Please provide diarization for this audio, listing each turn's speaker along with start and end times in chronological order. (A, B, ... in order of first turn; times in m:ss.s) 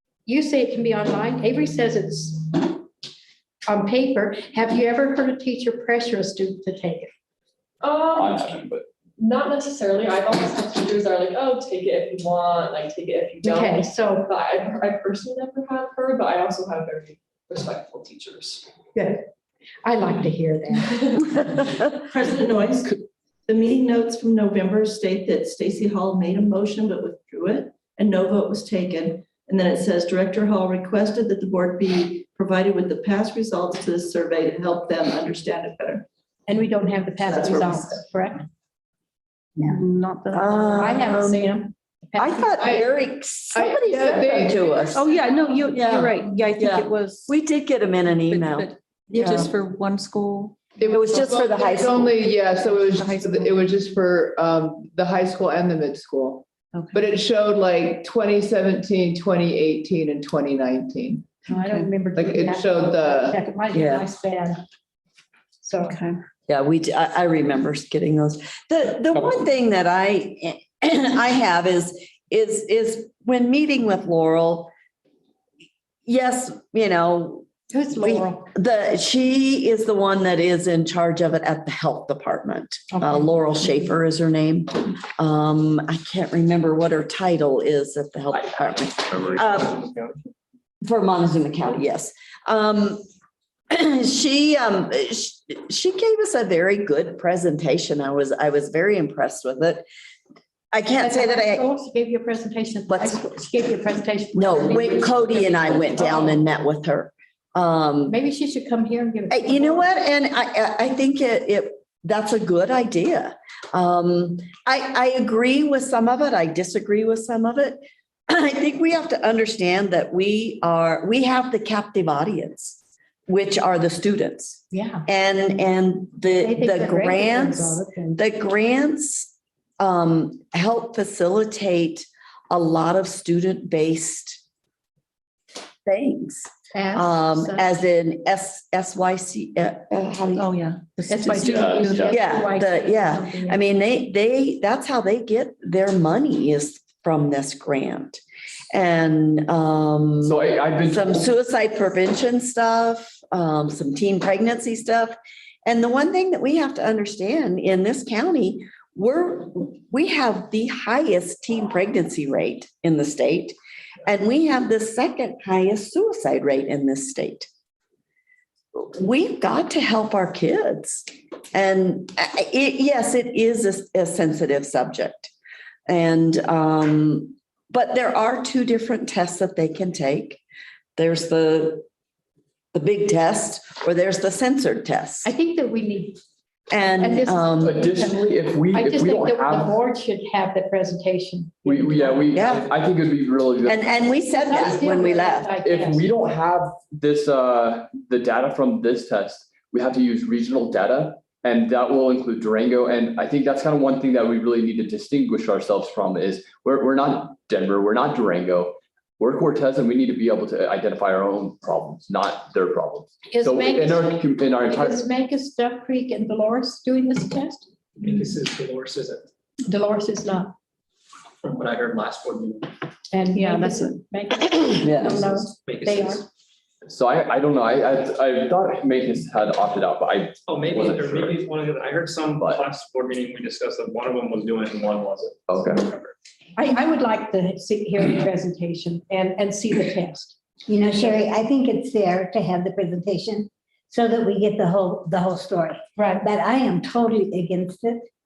0:00.3-0:02.8 A
0:03.6-0:07.1 A
0:07.8-0:08.6 B
0:08.1-0:08.9 C
0:09.2-0:13.7 B
0:13.4-0:14.3 A
0:14.4-0:15.0 D
0:14.6-0:18.5 B
0:19.0-0:19.3 A
0:19.8-0:21.4 A
0:22.1-0:23.0 E
0:23.5-0:36.1 E
0:36.5-0:38.4 A
0:37.3-0:37.8 E
0:39.6-0:40.9 D
0:40.3-0:41.5 F
0:40.8-0:42.9 A
0:42.2-0:45.1 F
0:43.5-0:44.8 G
0:45.0-0:47.3 D
0:45.7-0:49.5 F
0:48.2-0:50.6 D
0:50.8-1:01.4 G
0:50.9-0:52.2 F
0:52.9-0:53.5 D
0:56.7-0:57.1 D
1:01.5-1:04.6 A
1:01.5-1:01.9 D
1:02.2-1:03.4 G
1:03.7-1:04.1 F
1:05.6-1:06.0 A
1:05.8-1:06.2 D
1:06.5-1:14.7 F
1:16.1-1:29.8 F
1:17.7-1:18.5 A
1:22.9-1:23.4 A
1:30.8-1:33.1 F
1:33.7-1:39.8 F
1:40.7-1:41.6 F
1:41.0-1:46.4 A
1:42.9-1:43.3 F
1:44.3-1:48.2 F
1:48.1-1:49.9 A
1:49.3-2:14.4 F
2:04.7-2:05.0 A
2:06.3-2:08.2 A
2:15.8-2:20.5 F
2:16.7-2:17.7 A
2:20.4-2:22.2 D
2:21.1-2:23.6 A
2:21.4-2:22.2 C
2:22.1-2:28.2 F
2:28.7-2:43.6 F
2:30.2-2:31.3 C
2:44.1-2:47.5 F
2:48.8-2:55.3 F
2:55.9-3:00.4 F
3:01.0-3:01.8 F
3:02.7-3:05.3 F
3:05.2-3:06.2 A
3:06.7-3:07.8 F
3:07.0-3:12.4 A
3:07.6-3:09.8 C
3:11.6-3:14.8 C
3:12.4-3:12.7 F
3:13.7-3:15.6 F
3:14.3-3:16.0 A
3:15.6-3:35.0 C
3:33.3-3:37.7 A
3:38.0-3:39.3 H
3:39.6-3:40.5 A
3:41.4-3:42.7 H
3:43.1-3:46.2 A
3:43.4-3:44.0 D
3:44.8-3:45.2 F
3:45.6-3:46.3 H
3:46.9-3:51.4 C
3:50.5-3:56.1 H
3:52.4-3:52.7 C
3:55.5-3:55.9 C
3:56.6-4:00.4 A
4:00.7-4:08.0 I
4:06.0-4:06.3 A